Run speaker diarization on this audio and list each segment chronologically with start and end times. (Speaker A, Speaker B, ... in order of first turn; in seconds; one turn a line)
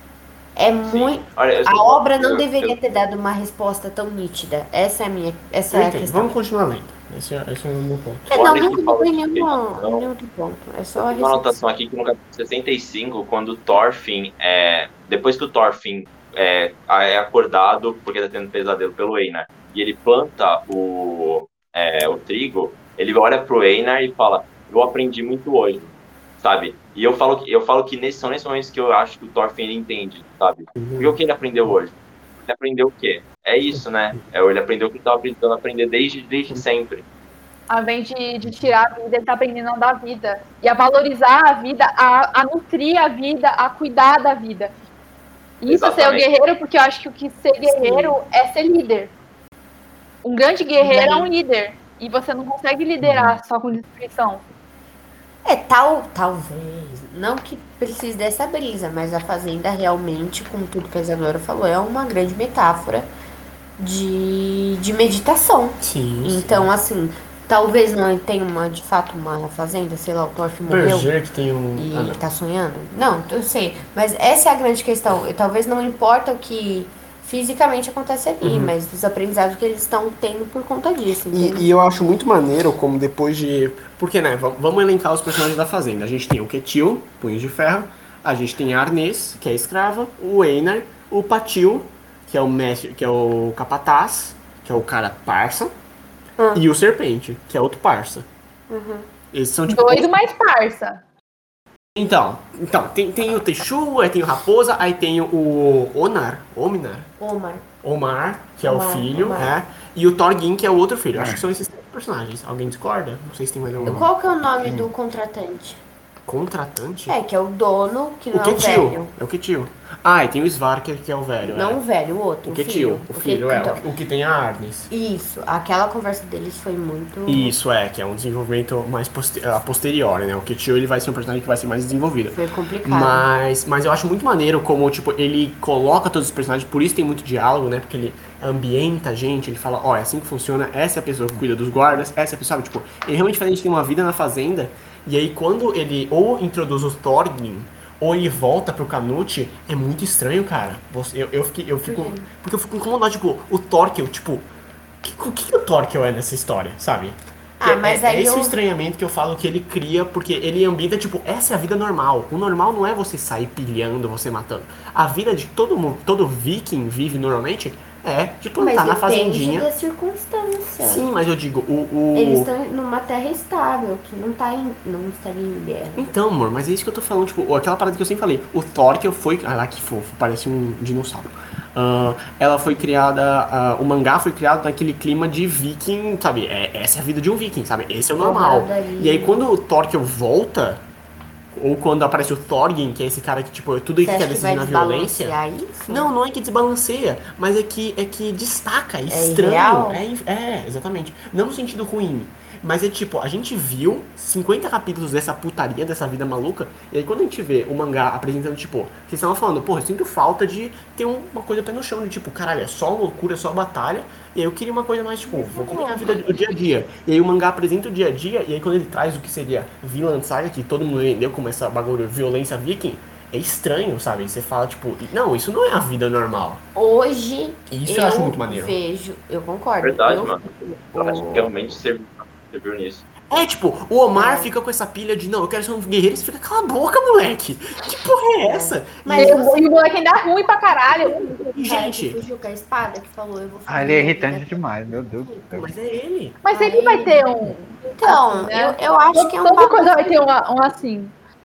Speaker A: 0.6-6.3
Speaker B: 0.8-2.8
Speaker C: 5.7-8.3
Speaker A: 8.3-11.6
Speaker B: 8.3-10.1
Speaker B: 11.0-37.0
Speaker C: 30.8-31.2
Speaker D: 37.7-44.7
Speaker D: 45.6-49.1
Speaker B: 45.6-46.3
Speaker A: 47.6-48.1
Speaker D: 50.2-54.4
Speaker A: 50.8-51.3
Speaker C: 53.0-53.4
Speaker A: 55.4-63.1
Speaker A: 63.8-71.1
Speaker C: 65.8-66.7
Speaker C: 70.7-72.2
Speaker A: 71.8-81.7
Speaker C: 78.4-78.7
Speaker C: 81.3-95.7
Speaker A: 96.4-96.6
Speaker C: 96.5-98.3
Speaker A: 98.7-99.1
Speaker C: 99.3-100.2
Speaker D: 99.7-101.0
Speaker C: 101.9-107.1
Speaker A: 107.2-107.7
Speaker C: 107.8-114.1
Speaker A: 108.6-109.5
Speaker E: 111.1-111.4
Speaker E: 113.8-114.1
Speaker A: 113.8-115.8
Speaker C: 116.2-117.2
Speaker A: 117.1-119.1
Speaker C: 118.3-121.8
Speaker A: 121.4-123.8
Speaker C: 122.4-124.9
Speaker A: 124.9-127.5
Speaker C: 127.3-154.5
Speaker A: 132.3-133.3
Speaker A: 151.8-152.3
Speaker C: 155.0-169.7
Speaker A: 157.6-158.6
Speaker A: 168.6-171.1
Speaker C: 170.8-172.5
Speaker A: 172.1-176.1
Speaker C: 175.9-190.8
Speaker A: 188.2-189.4
Speaker C: 191.5-226.6
Speaker A: 194.0-196.1
Speaker A: 199.1-200.0
Speaker A: 215.2-216.4
Speaker A: 226.7-231.7
Speaker C: 227.7-228.8
Speaker B: 229.8-233.0
Speaker C: 233.3-239.5
Speaker A: 234.1-234.5
Speaker A: 238.4-239.7
Speaker D: 239.1-241.3
Speaker A: 240.9-244.9
Speaker C: 241.4-242.2
Speaker E: 243.7-245.7
Speaker C: 245.5-246.4
Speaker D: 246.4-251.1
Speaker A: 246.5-247.2
Speaker A: 247.8-250.2